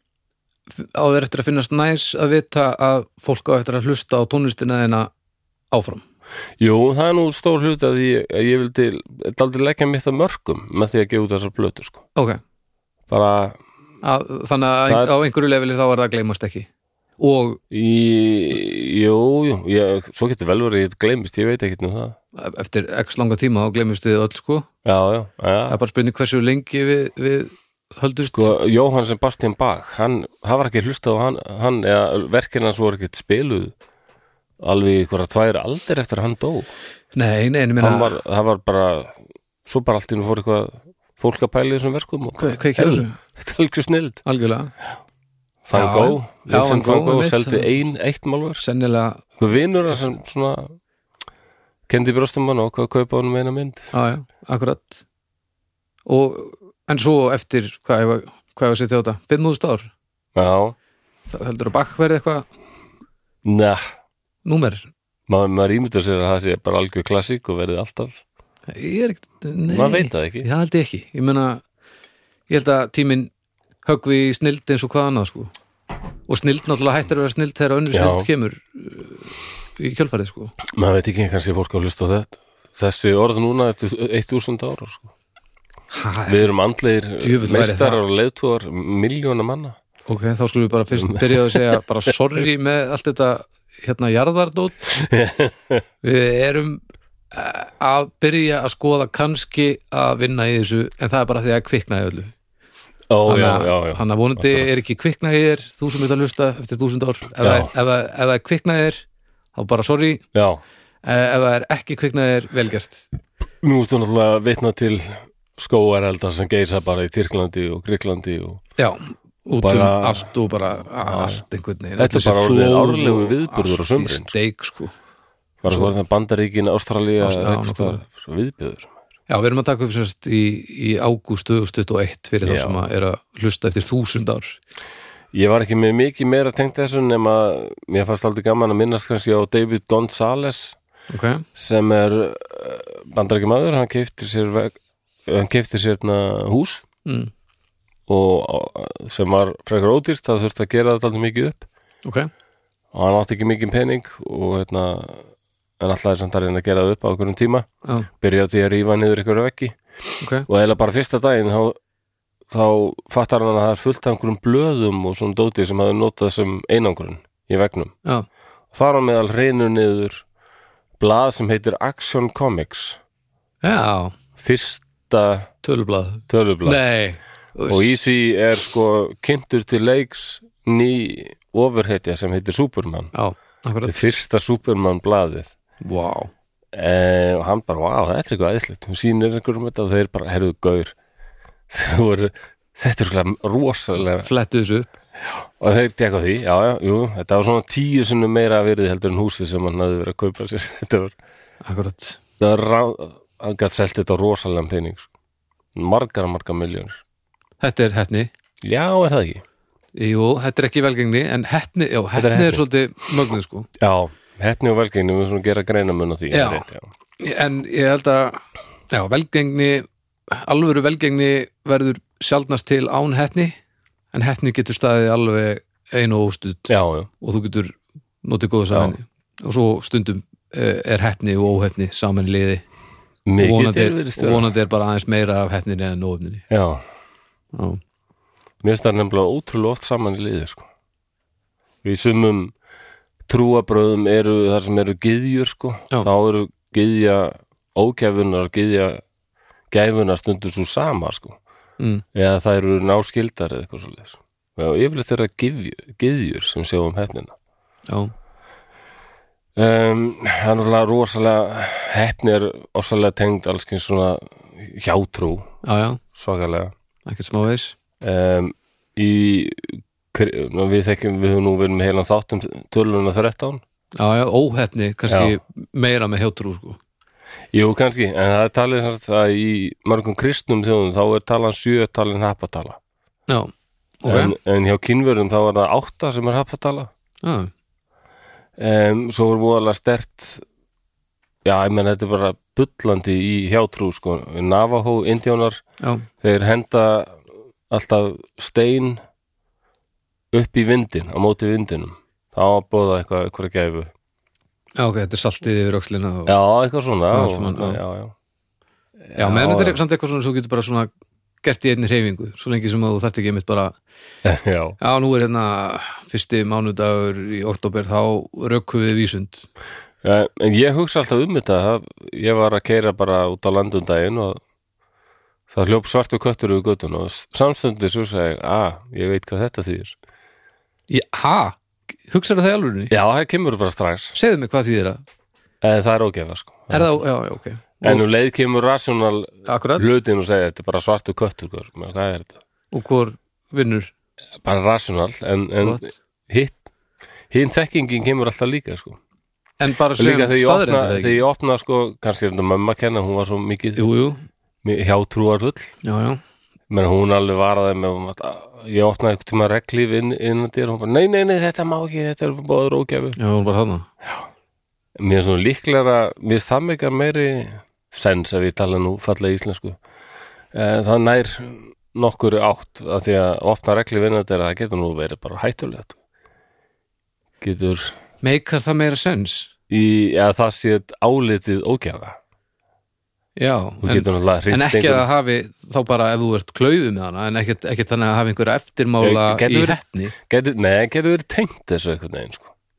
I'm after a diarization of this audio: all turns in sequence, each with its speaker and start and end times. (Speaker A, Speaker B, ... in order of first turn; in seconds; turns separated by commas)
Speaker A: 0.7-5.1, Speaker A: 5.7-6.0, Speaker B: 6.6-12.0, Speaker A: 12.2-12.4, Speaker B: 13.1-13.6, Speaker A: 14.0-16.7, Speaker B: 14.9-15.2, Speaker A: 17.2-17.6, Speaker B: 17.7-22.2, Speaker A: 22.4-24.7, Speaker B: 24.9-25.8, Speaker A: 25.7-28.6, Speaker B: 28.3-33.8, Speaker B: 34.6-36.7, Speaker A: 37.1-38.2, Speaker B: 37.8-44.2, Speaker A: 42.4-43.2, Speaker A: 44.2-44.7, Speaker B: 45.7-48.6, Speaker A: 45.7-47.7, Speaker A: 48.6-49.2, Speaker B: 49.4-50.8, Speaker B: 51.9-53.9, Speaker A: 53.9-55.0, Speaker A: 56.1-59.9, Speaker B: 60.4-60.8, Speaker A: 61.3-62.5, Speaker B: 63.4-63.8, Speaker A: 64.5-64.9, Speaker B: 65.3-68.2, Speaker A: 68.7-71.6, Speaker B: 69.7-70.5, Speaker A: 72.5-73.3, Speaker A: 73.8-75.5, Speaker A: 76.3-80.5, Speaker B: 77.9-78.3, Speaker B: 80.7-85.1, Speaker A: 85.9-86.5, Speaker B: 86.3-89.8, Speaker A: 87.2-88.0, Speaker A: 90.1-94.9, Speaker B: 90.9-91.8, Speaker B: 94.9-95.8, Speaker A: 96.0-96.8, Speaker A: 97.3-102.3, Speaker B: 103.1-104.7, Speaker A: 103.3-109.0, Speaker B: 107.4-107.7, Speaker A: 109.5-110.2, Speaker B: 110.3-110.6, Speaker A: 111.0-113.0, Speaker B: 113.6-118.6, Speaker A: 118.8-124.9, Speaker B: 119.6-120.3, Speaker B: 121.0-121.4, Speaker B: 122.0-124.4, Speaker B: 125.6-128.9, Speaker A: 125.7-125.9, Speaker A: 127.2-128.0, Speaker A: 129.3-134.6, Speaker B: 132.4-132.8, Speaker B: 135.3-140.8, Speaker A: 141.1-141.5, Speaker B: 141.6-146.8, Speaker A: 147.1-147.3, Speaker B: 148.1-151.7, Speaker A: 152.1-152.3, Speaker B: 152.9-155.2, Speaker B: 155.8-157.7, Speaker B: 158.2-159.8, Speaker A: 160.2-160.5, Speaker B: 160.4-161.8, Speaker B: 162.5-167.9, Speaker B: 168.7-170.2, Speaker B: 171.0-173.0, Speaker A: 173.6-174.2, Speaker B: 174.4-175.5, Speaker A: 175.6-178.0, Speaker B: 176.3-176.8, Speaker B: 177.7-183.1, Speaker A: 183.1-184.0, Speaker B: 183.8-185.5, Speaker A: 185.8-186.3, Speaker B: 186.7-190.9, Speaker B: 191.7-194.3, Speaker A: 194.2-194.9, Speaker B: 195.4-201.2, Speaker A: 201.6-202.2, Speaker B: 202.4-205.1, Speaker B: 205.8-207.0, Speaker A: 207.6-208.3, Speaker B: 208.6-209.4, Speaker A: 210.0-213.7, Speaker B: 212.2-212.6, Speaker B: 213.8-216.9, Speaker A: 216.3-216.7, Speaker A: 217.2-223.6, Speaker A: 224.1-232.7, Speaker B: 226.7-227.1, Speaker B: 233.3-234.5, Speaker A: 233.4-236.4, Speaker B: 236.5-236.8, Speaker A: 237.5-237.8, Speaker B: 238.6-240.7, Speaker B: 241.8-242.6, Speaker B: 243.3-249.0, Speaker B: 249.7-251.4, Speaker B: 252.1-257.3, Speaker A: 257.9-258.1, Speaker B: 259.6-265.5, Speaker A: 265.6-266.0, Speaker B: 266.1-266.7, Speaker A: 267.1-267.8, Speaker B: 268.0-273.6, Speaker A: 274.0-276.8, Speaker B: 275.1-275.4, Speaker B: 277.5-282.8, Speaker A: 283.3-284.3, Speaker B: 284.1-286.9, Speaker A: 287.2-287.5, Speaker B: 288.6-290.4, Speaker B: 291.4-295.6, Speaker A: 295.8-296.1, Speaker B: 296.2-299.0, Speaker B: 300.3-303.9, Speaker A: 304.8-306.4, Speaker B: 306.3-308.1, Speaker A: 307.1-307.8, Speaker B: 309.1-309.8, Speaker A: 309.2-310.9, Speaker A: 311.4-313.8, Speaker B: 314.2-314.8, Speaker A: 314.8-319.5, Speaker B: 320.0-324.4, Speaker B: 325.5-329.9, Speaker A: 330.9-332.9, Speaker B: 332.9-334.1, Speaker A: 334.1-335.0, Speaker B: 335.6-337.0, Speaker A: 336.7-338.0, Speaker B: 337.8-342.4, Speaker A: 339.5-339.9, Speaker A: 342.7-343.9, Speaker B: 344.4-346.6, Speaker B: 347.3-349.0, Speaker A: 349.6-351.2, Speaker B: 350.0-353.8, Speaker A: 353.8-354.2, Speaker B: 354.6-355.7, Speaker A: 355.8-356.2, Speaker B: 356.7-363.2, Speaker A: 363.2-363.9, Speaker B: 365.0-369.8, Speaker B: 370.5-376.0, Speaker B: 377.4-377.9, Speaker A: 378.2-379.5, Speaker B: 379.7-382.2, Speaker A: 383.4-390.1, Speaker B: 383.8-385.1, Speaker B: 389.0-392.5